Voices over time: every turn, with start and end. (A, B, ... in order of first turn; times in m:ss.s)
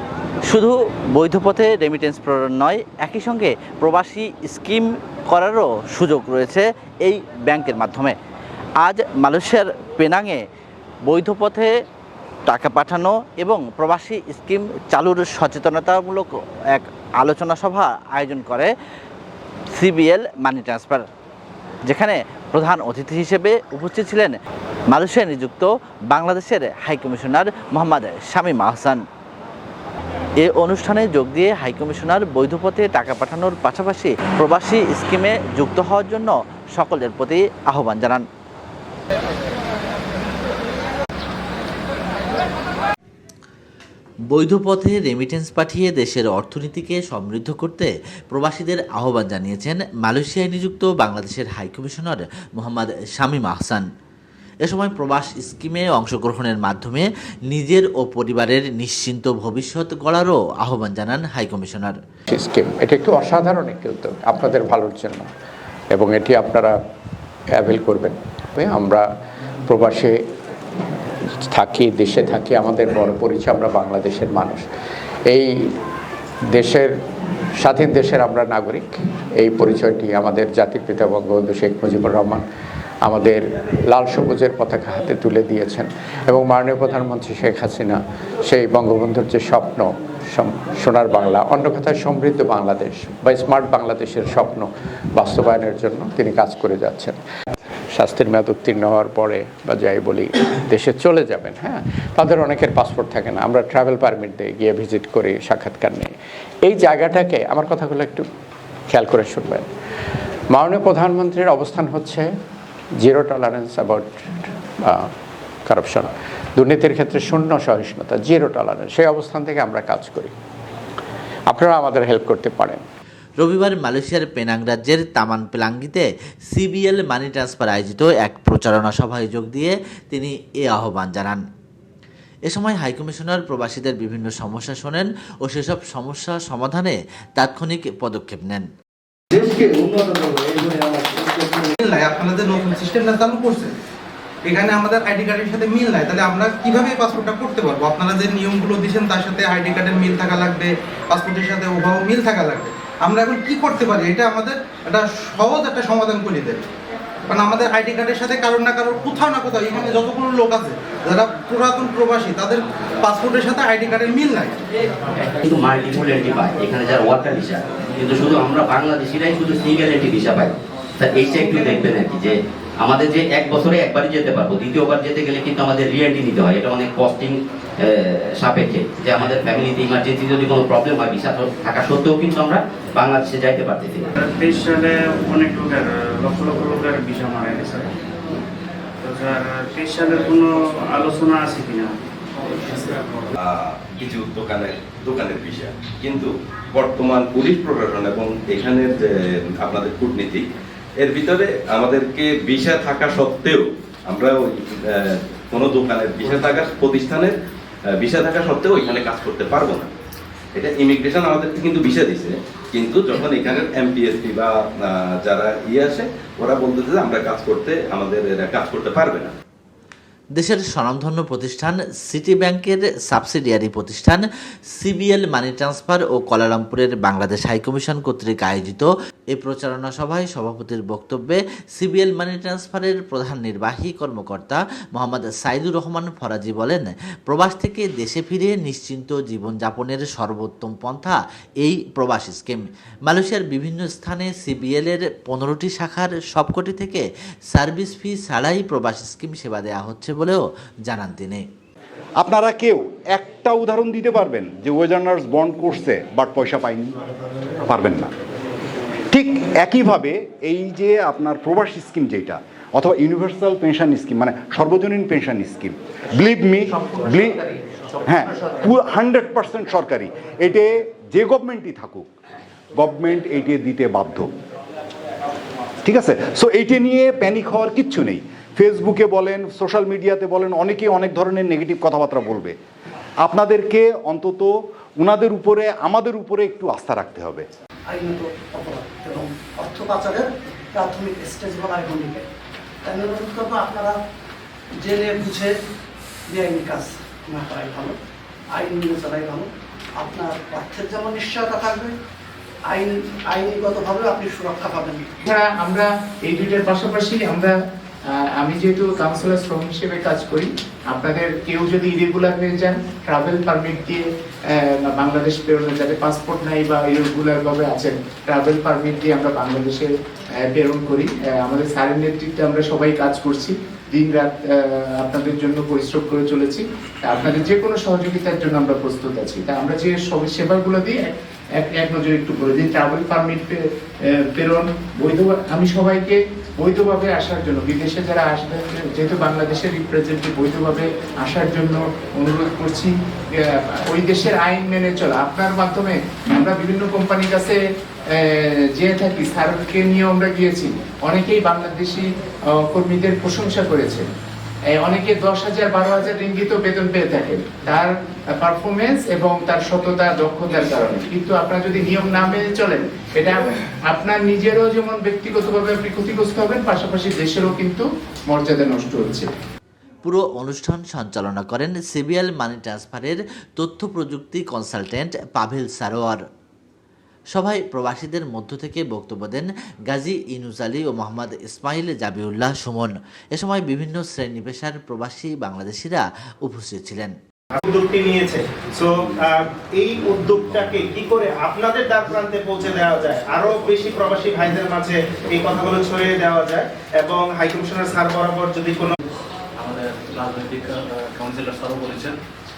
0:00.5-0:08.1 A
0:08.8-0:10.4 A
0:11.1-0:11.7 A
0:12.5-0:18.7 A
0:19.7-0:21.0 A
0:21.8-0:24.4 A
0:24.9-0:29.0 A
0:30.4-0:38.2 A
0:44.3-0:53.8 A
0:54.6-1:01.9 A
1:02.3-1:05.2 B
1:05.9-1:06.7 B
1:07.6-1:09.0 B
1:09.7-1:10.2 B
1:11.5-1:14.7 B
1:15.3-1:15.5 B
1:16.5-1:16.9 B
1:17.6-1:22.4 B
1:23.0-1:37.2 B
1:37.9-1:46.1 B
1:46.6-1:48.2 B
1:48.9-1:49.7 B
1:50.5-1:52.3 B
1:53.0-1:54.1 B
1:55.7-2:00.3 B
2:01.5-2:02.8 B
2:03.4-2:11.4 A
2:12.5-2:18.7 A
2:19.3-2:21.8 C
2:21.8-2:23.7 D
2:24.5-2:36.7 D
2:37.3-2:44.6 D
2:45.4-3:04.1 E
3:04.2-3:07.9 F
3:09.0-3:11.9 F
3:13.4-3:19.1 G
3:19.6-3:20.4 G
3:21.0-3:27.3 G
3:28.0-3:29.9 G
3:30.6-3:39.3 G
3:40.4-3:44.2 A
3:44.8-4:11.4 A
4:12.2-4:16.9 H
4:17.7-4:18.1 H
4:19.1-4:32.1 H
4:32.8-4:34.3 H
4:35.8-4:42.6 H
4:43.2-4:47.4 H
4:47.9-4:52.2 I
4:52.8-4:54.0 I
4:54.8-4:55.5 I
4:56.3-4:58.0 I
4:58.5-5:01.9 I
5:02.7-5:05.1 I
5:05.2-5:07.5 J
5:08.1-5:47.6 J
5:48.1-5:54.1 J
5:54.7-6:09.3 J
6:10.0-6:16.2 A
6:17.3-6:27.2 A
6:27.5-6:38.9 K
6:39.6-6:42.2 L